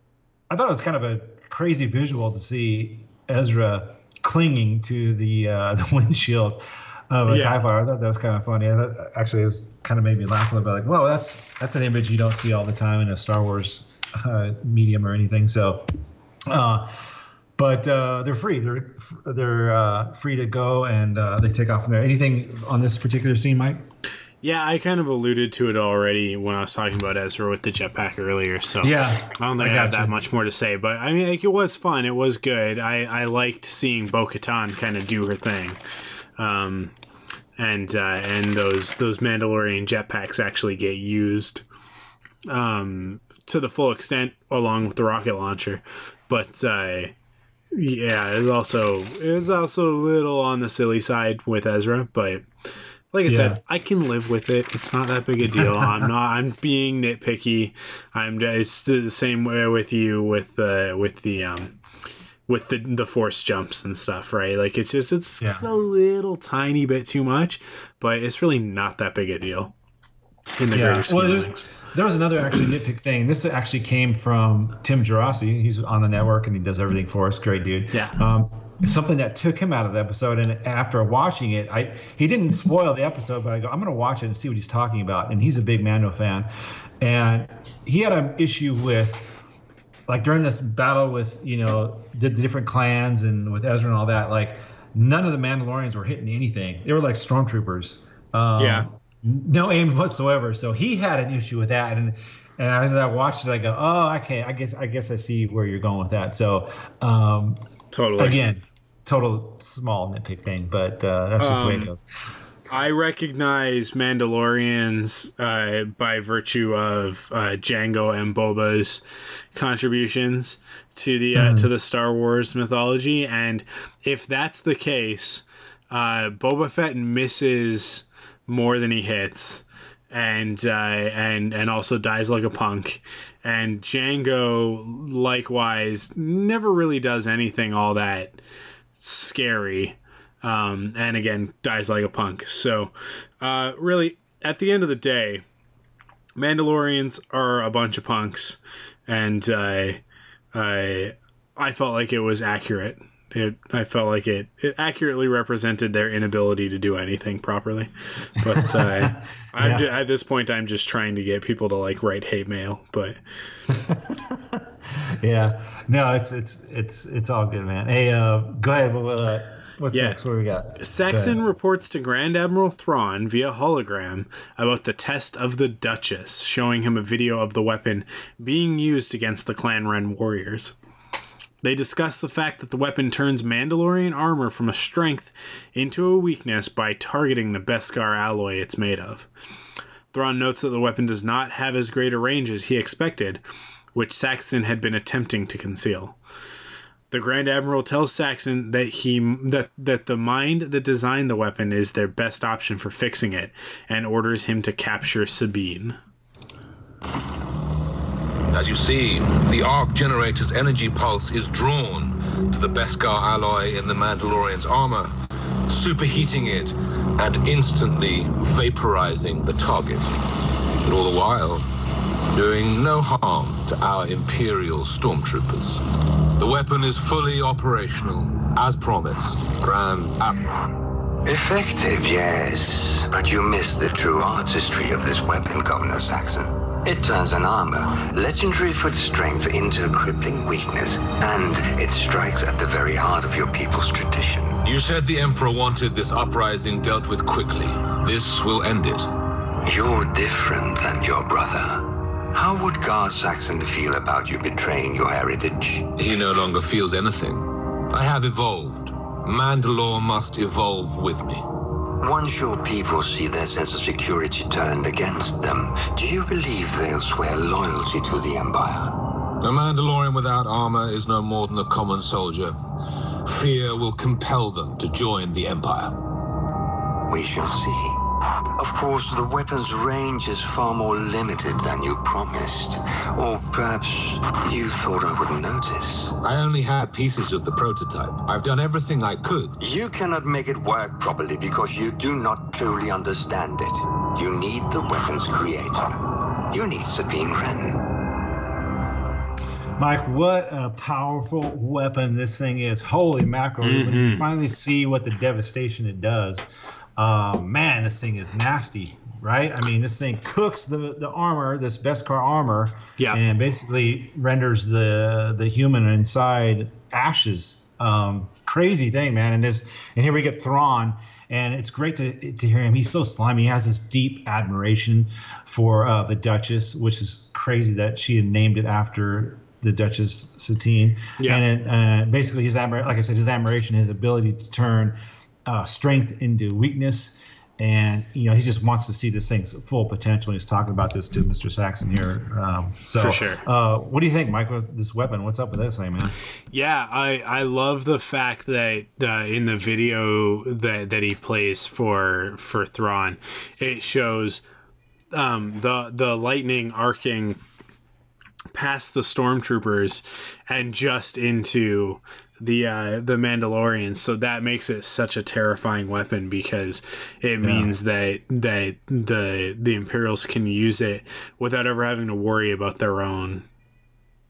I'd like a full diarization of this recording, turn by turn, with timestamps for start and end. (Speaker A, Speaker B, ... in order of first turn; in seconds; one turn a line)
Speaker A: 0.5-15.9
Speaker B: 7.2-7.6
Speaker A: 16.5-17.0
Speaker A: 17.6-23.9
Speaker B: 24.4-35.8
Speaker A: 28.8-30.2
Speaker B: 36.4-36.9
Speaker B: 37.6-41.6
Speaker B: 42.5-47.1
Speaker B: 47.7-52.5
Speaker B: 53.1-61.8
Speaker A: 53.2-53.6
Speaker A: 55.5-56.1
Speaker B: 62.5-69.7
Speaker A: 65.4-65.7
Speaker B: 70.6-71.7
Speaker A: 70.7-89.3
Speaker B: 77.9-78.2
Speaker A: 90.1-107.6
Speaker B: 98.6-98.8
Speaker B: 107.9-108.4
Speaker A: 108.2-112.1
Speaker B: 111.4-111.9
Speaker B: 112.7-119.0
Speaker B: 119.5-138.4
Speaker A: 121.3-121.7
Speaker B: 139.0-145.4
Speaker B: 146.3-150.0
Speaker B: 150.5-163.2
Speaker A: 158.5-159.9
Speaker A: 163.7-171.4
Speaker B: 169.9-170.2
Speaker B: 170.8-180.7
Speaker B: 181.6-189.3
Speaker B: 190.1-193.4
Speaker B: 193.9-196.2
Speaker B: 197.1-206.0
Speaker C: 208.5-215.2
Speaker C: 215.7-220.1
Speaker C: 220.8-221.6
Speaker C: 222.3-225.8
Speaker C: 226.4-230.5
Speaker D: 231.2-244.6
Speaker C: 244.6-249.1
Speaker D: 249.7-255.9
Speaker C: 256.0-261.5
Speaker D: 262.0-268.9
Speaker C: 269.4-272.6
Speaker C: 273.2-276.0
Speaker D: 277.1-278.0
Speaker D: 278.6-286.1
Speaker C: 286.2-289.5
Speaker D: 289.6-295.9
Speaker D: 296.5-297.8
Speaker A: 299.8-346.1
Speaker B: 303.6-304.2
Speaker B: 343.0-343.4
Speaker B: 346.5-354.4
Speaker B: 355.1-357.4
Speaker B: 358.5-373.4
Speaker A: 367.4-367.7